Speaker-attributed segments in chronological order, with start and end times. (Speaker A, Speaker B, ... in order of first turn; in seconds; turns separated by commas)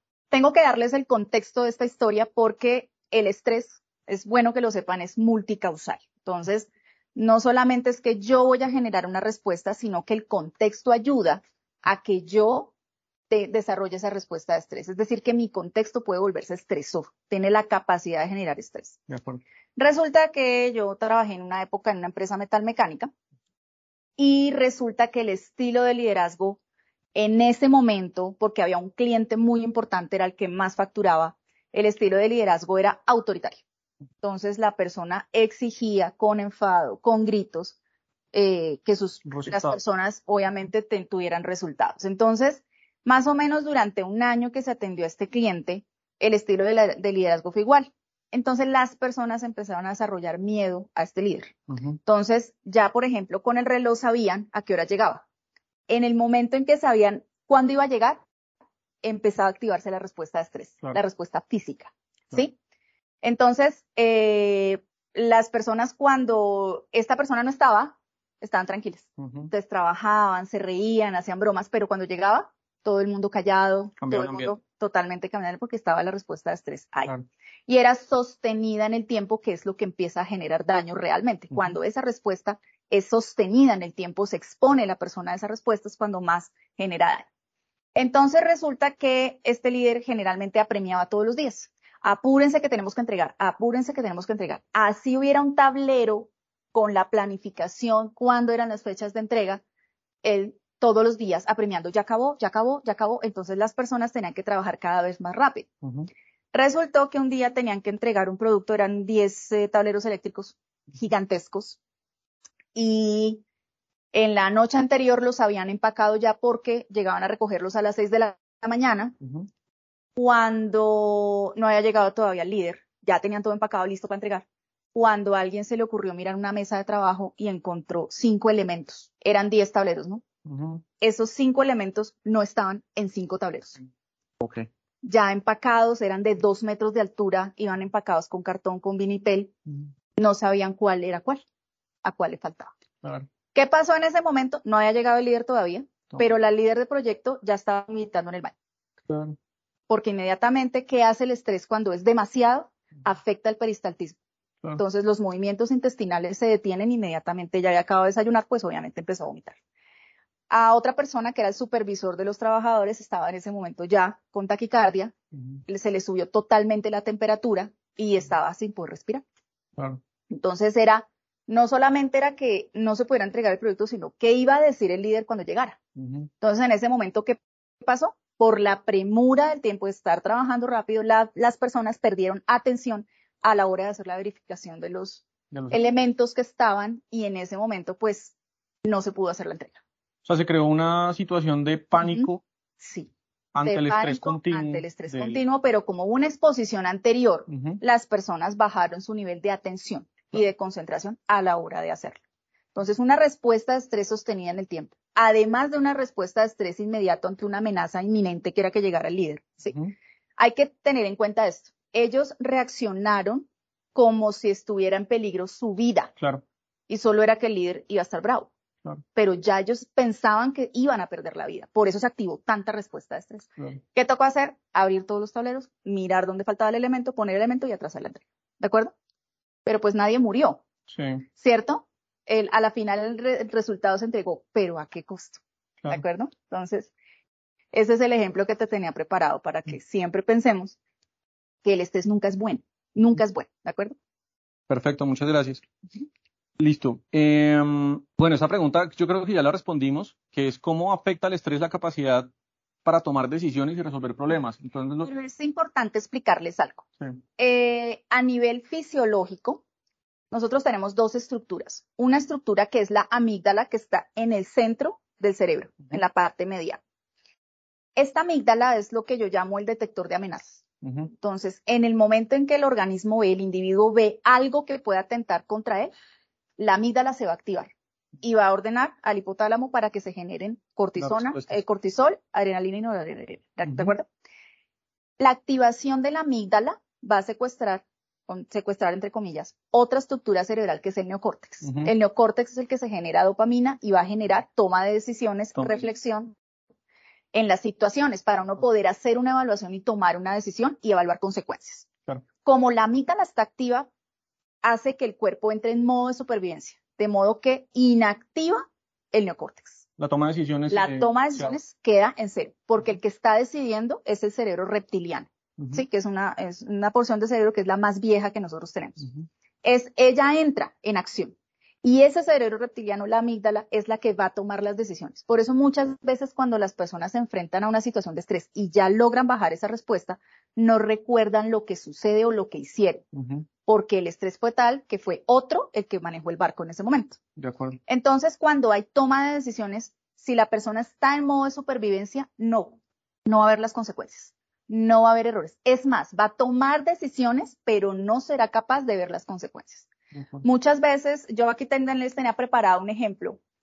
Speaker A: 0.3-12.7, Speaker A: 13.3-19.0, Speaker B: 19.1-19.4, Speaker A: 19.8-23.1, Speaker A: 24.2-26.6, Speaker A: 27.1-33.6, Speaker A: 34.2-37.8, Speaker A: 38.3-51.5, Speaker B: 39.3-39.8, Speaker B: 51.7-52.0, Speaker A: 52.1-55.2, Speaker A: 55.9-58.2, Speaker A: 59.0-62.5, Speaker A: 63.2-77.1, Speaker B: 69.2-69.5, Speaker B: 74.0-74.5, Speaker A: 77.7-87.3, Speaker A: 88.0-99.6, Speaker A: 100.2-105.7, Speaker B: 105.8-106.1, Speaker A: 106.5-111.8, Speaker A: 112.8-113.4, Speaker A: 114.1-119.2, Speaker A: 120.2-130.2, Speaker B: 130.5-130.8, Speaker A: 131.0-133.8, Speaker B: 134.4-134.7, Speaker A: 135.0-139.5, Speaker A: 140.2-141.4, Speaker A: 142.0-142.7, Speaker A: 143.5-148.5, Speaker B: 149.1-149.4, Speaker A: 149.9-154.2, Speaker A: 154.8-159.6, Speaker A: 160.5-165.1, Speaker A: 165.7-169.2, Speaker A: 170.3-175.8, Speaker B: 176.0-176.3, Speaker A: 176.4-188.3, Speaker B: 185.5-185.8, Speaker A: 188.8-189.8, Speaker B: 190.3-192.4, Speaker A: 192.0-192.3, Speaker A: 192.8-202.2, Speaker B: 193.6-195.4, Speaker B: 197.5-197.8, Speaker A: 202.8-209.8, Speaker A: 210.4-216.1, Speaker A: 216.9-218.5, Speaker A: 219.2-228.9, Speaker A: 229.7-230.6, Speaker B: 230.9-231.2, Speaker A: 231.4-236.9, Speaker A: 237.7-240.8, Speaker A: 241.6-244.0, Speaker B: 244.7-245.6, Speaker B: 246.6-252.3, Speaker B: 252.8-255.1, Speaker A: 255.0-256.8, Speaker A: 257.4-259.6, Speaker A: 260.3-266.8, Speaker A: 268.0-275.9, Speaker A: 276.6-284.1, Speaker B: 281.0-281.5, Speaker A: 285.2-296.4, Speaker B: 291.6-291.9, Speaker A: 297.3-301.9, Speaker A: 302.4-303.9, Speaker A: 304.6-309.8, Speaker B: 310.0-311.5, Speaker A: 310.7-319.1, Speaker A: 319.6-333.1, Speaker B: 333.2-333.4, Speaker A: 333.6-337.2, Speaker B: 337.4-337.8, Speaker A: 337.9-349.9, Speaker A: 350.4-353.4